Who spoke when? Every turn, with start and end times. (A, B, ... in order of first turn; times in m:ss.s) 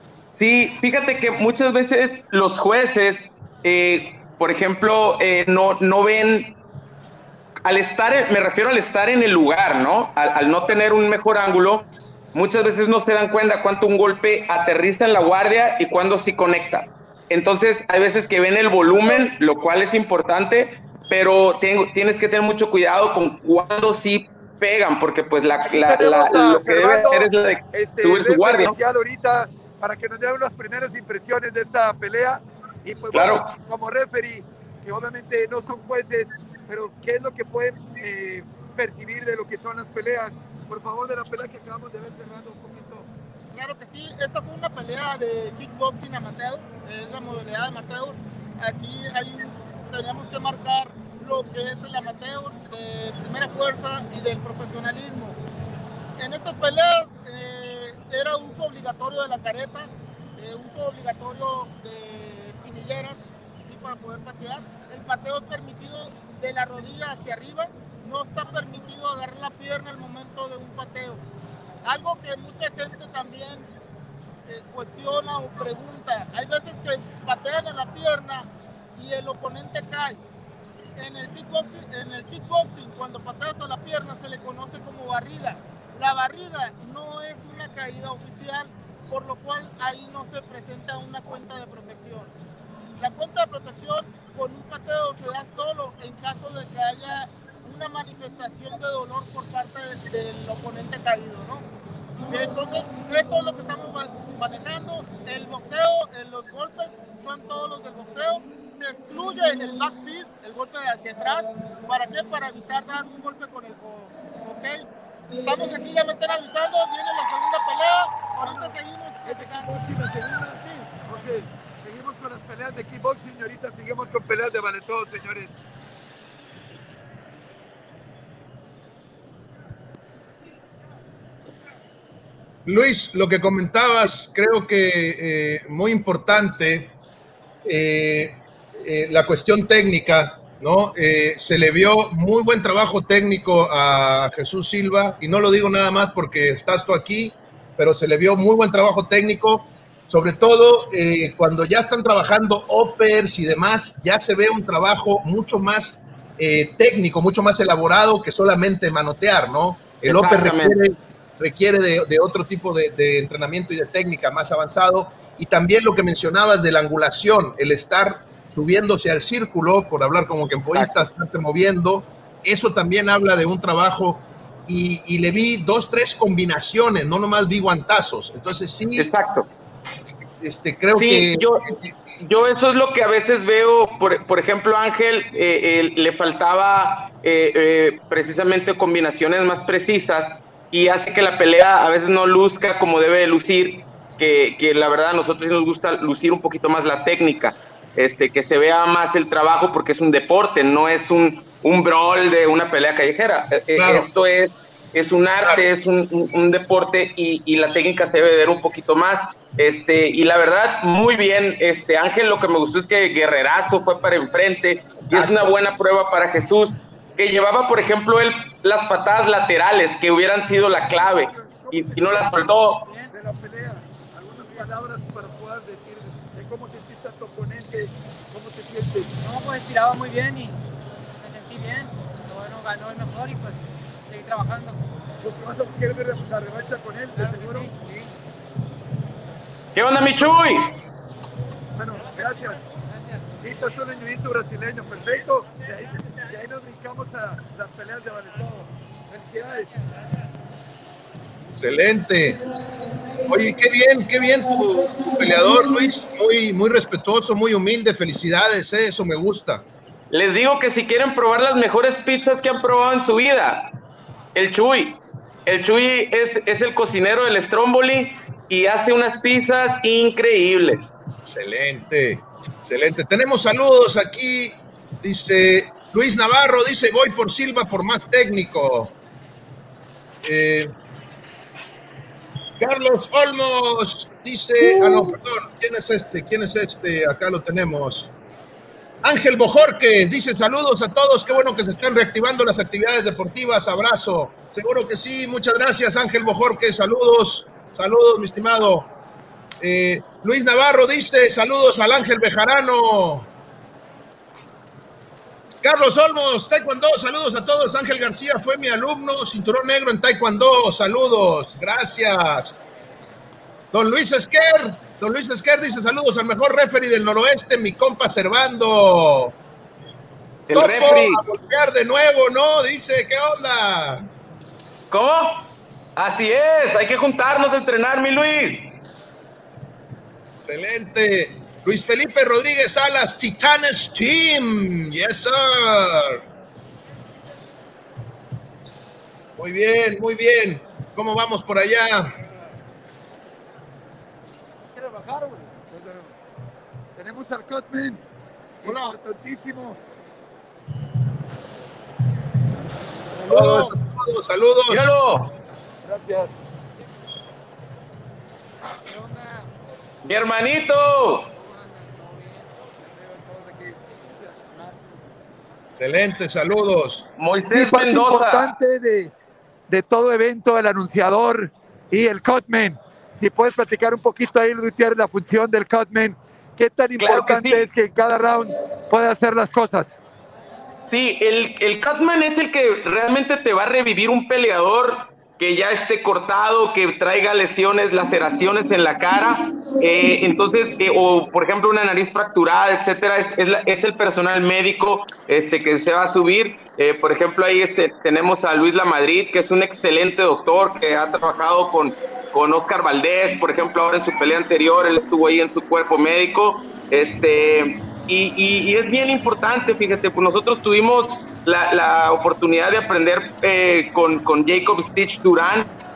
0:00.4-0:06.6 A
0:07.6-0:28.8 A
0:25.7-0:43.1 B
0:33.1-0:33.5 A
0:43.5-0:55.4 C
0:56.2-1:11.2 C
1:11.8-1:13.7 C
1:14.5-1:20.2 C
1:21.0-1:32.3 C
1:33.0-1:41.7 C
1:42.3-2:01.3 C
1:58.4-1:58.7 B
1:59.2-2:05.5 B
2:12.6-2:16.9 D
2:17.6-2:59.1 D
2:40.0-2:40.8 A
2:50.7-2:51.0 A
2:59.0-2:59.5 A
3:00.4-3:01.9 D
3:01.0-3:42.9 A
3:23.7-3:24.1 D
3:35.1-3:35.5 D
3:41.2-3:42.5 B
3:42.8-3:43.1 E
3:43.1-3:49.1 B
3:49.2-3:50.6 E
3:51.2-3:54.9 E
3:55.2-3:57.7 B
3:57.2-3:58.1 E
3:59.7-4:00.7 A
4:01.8-4:02.6 B
4:02.9-4:03.3 E
4:03.4-4:09.7 B
4:11.6-4:12.4 D
4:13.3-4:19.6 D
4:20.1-4:23.7 A
4:24.3-4:30.9 A
4:31.2-4:38.9 D
4:40.2-4:40.7 D
4:42.6-4:48.1 D
4:49.0-4:58.9 D
4:59.6-5:03.3 D
5:05.6-5:12.6 D
5:13.7-5:19.3 D
5:20.5-5:21.2 A
5:20.5-5:24.0 D
5:24.9-5:28.7 A
5:30.4-5:36.2 D
5:39.4-5:42.1 D
5:44.8-5:46.1 B
5:47.0-5:48.0 B
5:48.6-5:49.8 B
5:53.2-5:54.9 D
5:53.2-5:53.7 C
5:54.7-5:55.3 A
5:55.8-5:56.3 B
6:00.0-6:01.3 A
6:01.4-6:02.5 E
6:02.9-6:04.7 B
6:05.8-6:07.1 D
6:07.2-6:08.5 A
6:07.5-6:09.1 B
6:09.7-6:20.0 B
6:17.0-6:17.6 A
6:20.9-6:55.7 A